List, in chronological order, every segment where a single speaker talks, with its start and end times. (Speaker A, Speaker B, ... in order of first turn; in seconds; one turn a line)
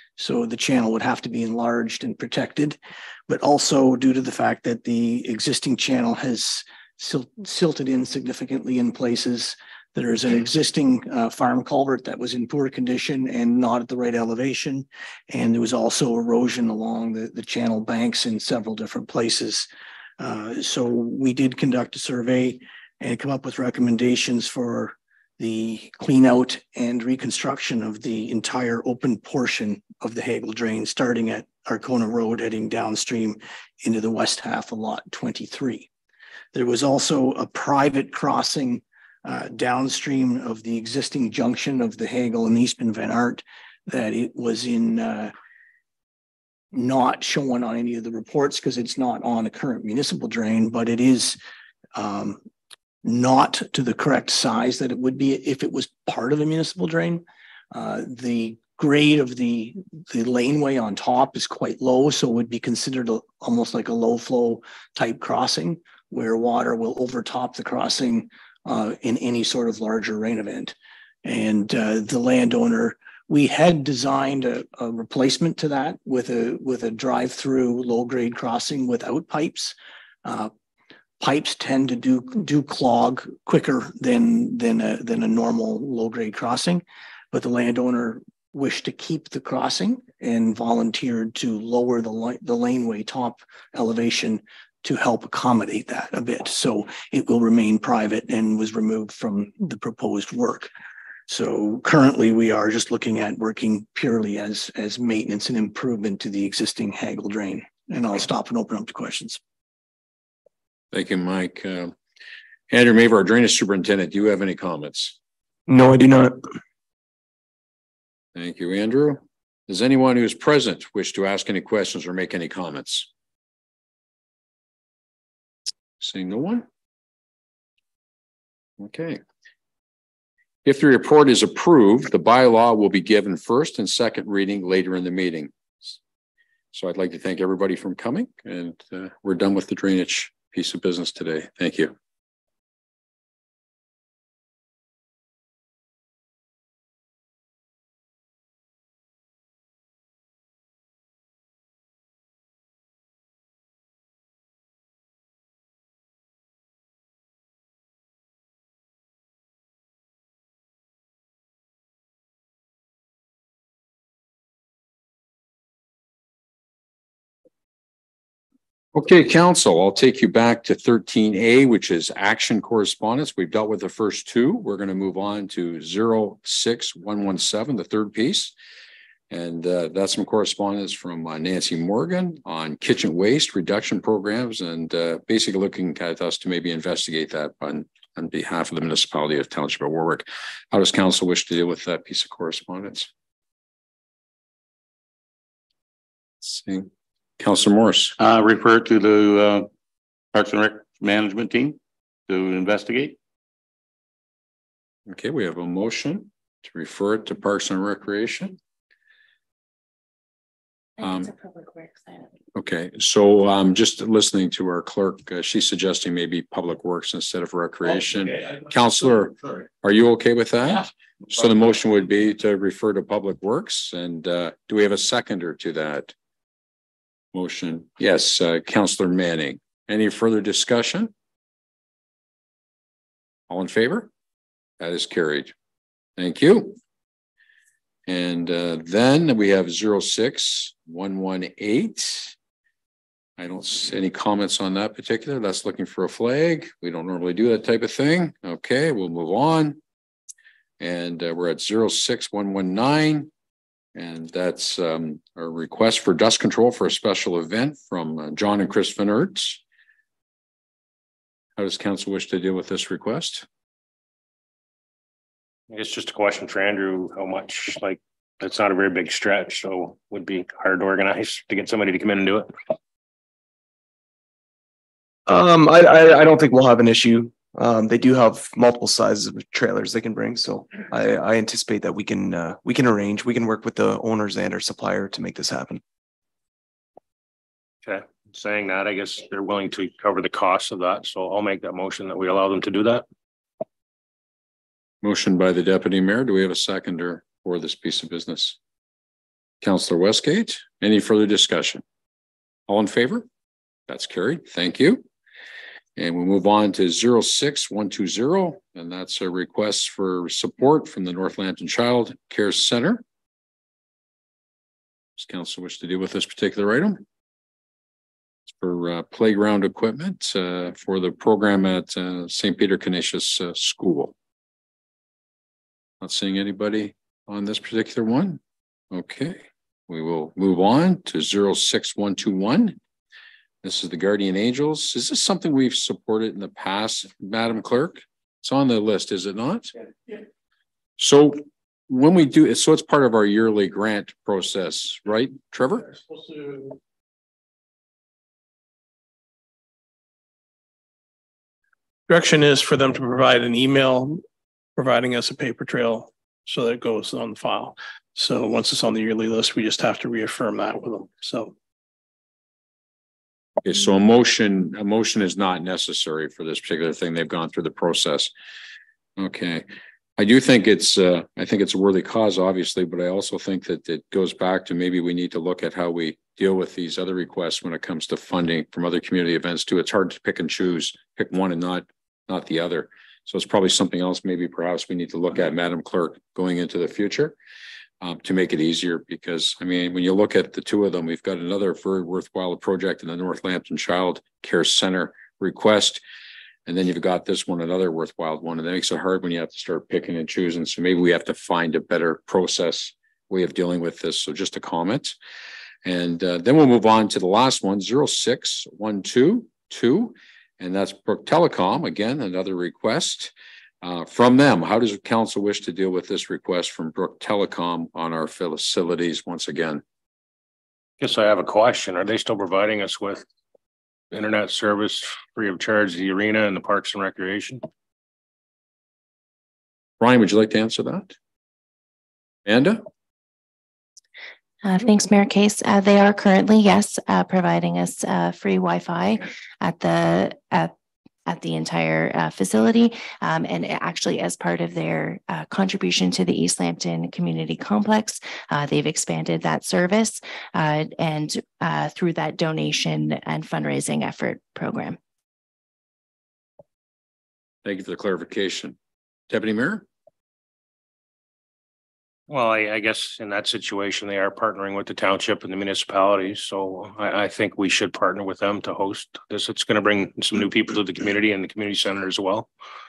Speaker A: 0.2-19.7
Speaker A: 20.2-35.9
Speaker A: 36.5-45.3
Speaker A: 46.7-51.4
Speaker A: 51.9-52.4
Speaker A: 53.0-80.5
Speaker A: 81.2-100.7
Speaker A: 101.3-109.4
Speaker B: 110.9-111.9
Speaker B: 112.7-115.2
Speaker C: 115.7-116.4
Speaker B: 118.3-123.1
Speaker B: 126.0-126.7
Speaker B: 128.8-129.2
Speaker B: 130.6-136.0
Speaker B: 136.7-141.9
Speaker B: 168.9-178.5
Speaker B: 179.3-193.1
Speaker B: 196.4-198.2
Speaker D: 198.2-199.7
Speaker D: 200.3-203.2
Speaker B: 205.1-208.6
Speaker E: 211.0-212.3
Speaker B: 211.0-211.3
Speaker B: 212.5-226.1
Speaker B: 227.3-231.1
Speaker B: 233.5-234.1
Speaker B: 234.8-235.5
Speaker B: 236.2-236.8
Speaker B: 238.1-242.3
Speaker B: 243.4-249.8
Speaker B: 250.8-253.3
Speaker B: 253.9-259.6
Speaker B: 261.6-263.4
Speaker F: 265.7-272.5
Speaker C: 275.3-285.8
Speaker F: 287.8-293.0
Speaker B: 295.0-298.6
Speaker B: 299.6-301.8
Speaker B: 302.7-303.3
Speaker B: 303.9-305.0
Speaker B: 305.9-313.0
Speaker B: 315.1-317.0
Speaker B: 318.5-324.1
Speaker B: 326.0-328.4
Speaker B: 328.9-332.8
Speaker B: 333.6-339.7
Speaker B: 341.0-345.9
Speaker G: 352.1-354.2
Speaker G: 354.8-361.5
Speaker B: 363.6-368.3
Speaker B: 369.2-369.6
Speaker B: 370.2-387.4
Speaker B: 388.0-396.0
Speaker B: 396.6-405.2
Speaker B: 405.8-419.8
Speaker F: 421.0-423.2
Speaker F: 424.1-427.6
Speaker B: 430.0-431.1
Speaker B: 432.4-432.8
Speaker E: 434.6-440.7
Speaker E: 441.2-455.0
Speaker B: 457.6-458.8
Speaker B: 459.3-459.9
Speaker F: 462.3-472.5